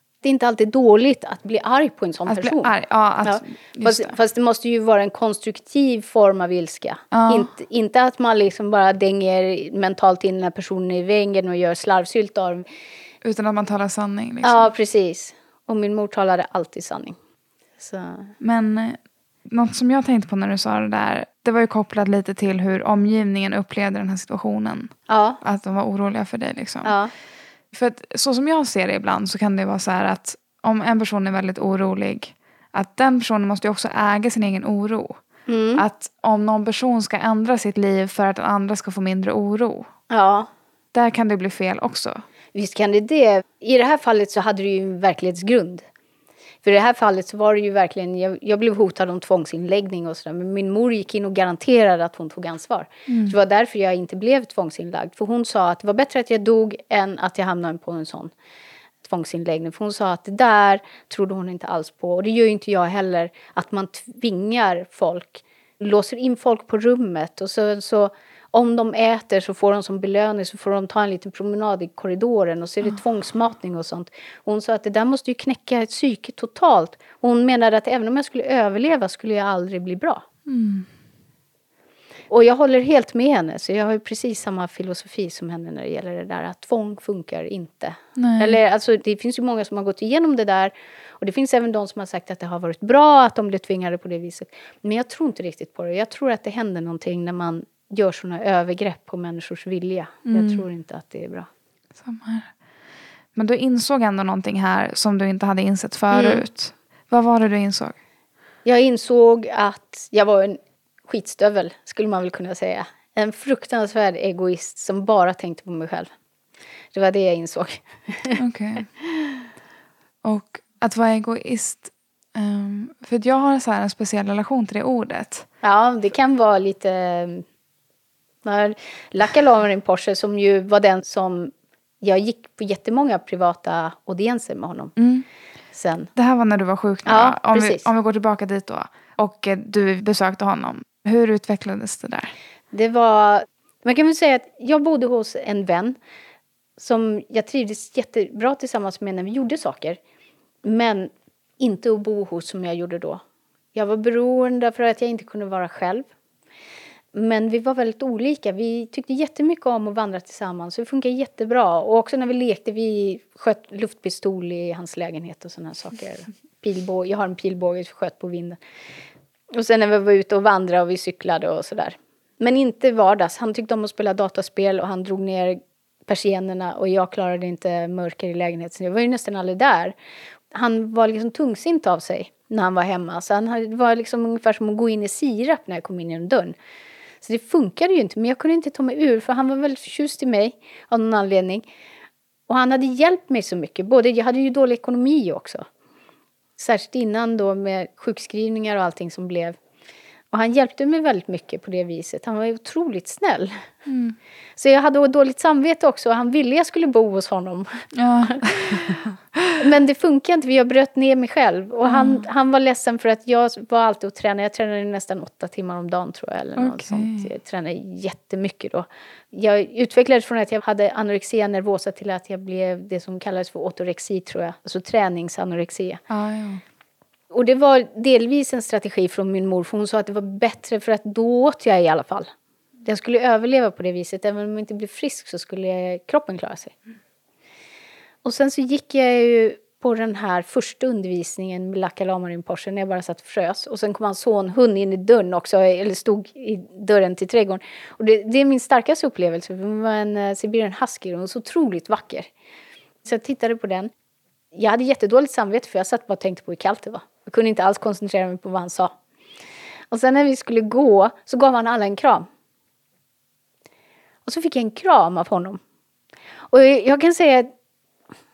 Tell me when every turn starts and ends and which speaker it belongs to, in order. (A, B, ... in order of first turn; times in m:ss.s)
0:00.2-0:02.7 A
0:02.3-0:04.1 B
0:03.2-0:12.6 A
0:07.1-0:07.5 B
0:13.2-0:14.7 B
0:14.4-0:17.2 A
0:17.8-0:18.3 A
0:18.4-0:26.9 B
0:25.1-0:25.4 A
0:26.8-0:27.1 A
0:27.7-0:35.2 B
0:35.5-0:35.8 A
0:35.8-0:39.9 B
0:40.1-0:40.5 A
0:40.9-0:42.2 B
0:42.5-0:45.8 A
0:46.6-0:58.3 A
0:53.1-0:53.3 B
0:59.0-1:20.2 A
1:20.4-1:20.9 B
1:22.3-1:41.5 A
1:28.2-1:28.6 B
1:40.2-1:40.6 B
1:42.0-1:42.5 B
1:43.4-1:48.0 B
1:46.1-1:46.4 A
1:48.6-1:56.1 A
1:56.9-1:58.4 A
1:58.4-1:58.9 B
2:00.2-2:05.4 B
2:05.6-2:07.4 A
2:08.4-2:14.9 A
2:15.0-2:15.2 B
2:15.7-2:16.1 A
2:16.2-2:22.3 B
2:17.0-2:17.9 A
2:22.7-2:26.0 A
2:26.8-2:30.0 A
2:30.6-2:33.2 A
2:33.7-2:36.0 A
2:37.1-2:48.6 A
2:49.5-2:59.9 A
3:00.5-3:06.5 A
3:07.2-3:11.7 A
3:12.5-3:15.6 A
3:16.6-3:19.6 A
3:20.3-3:23.6 A
3:23.8-3:24.2 B
3:24.6-3:29.0 A
3:27.9-3:29.6 B
3:29.6-3:46.0 A
3:31.8-3:32.2 B
3:36.6-3:37.3 B
3:46.1-3:46.6 B
3:47.3-3:52.3 A
3:52.8-3:56.7 A
3:58.2-4:12.3 A
4:13.0-4:13.9 A
4:14.5-4:18.9 A
4:19.9-4:22.3 A
4:24.2-4:25.6 A
4:26.5-4:27.5 A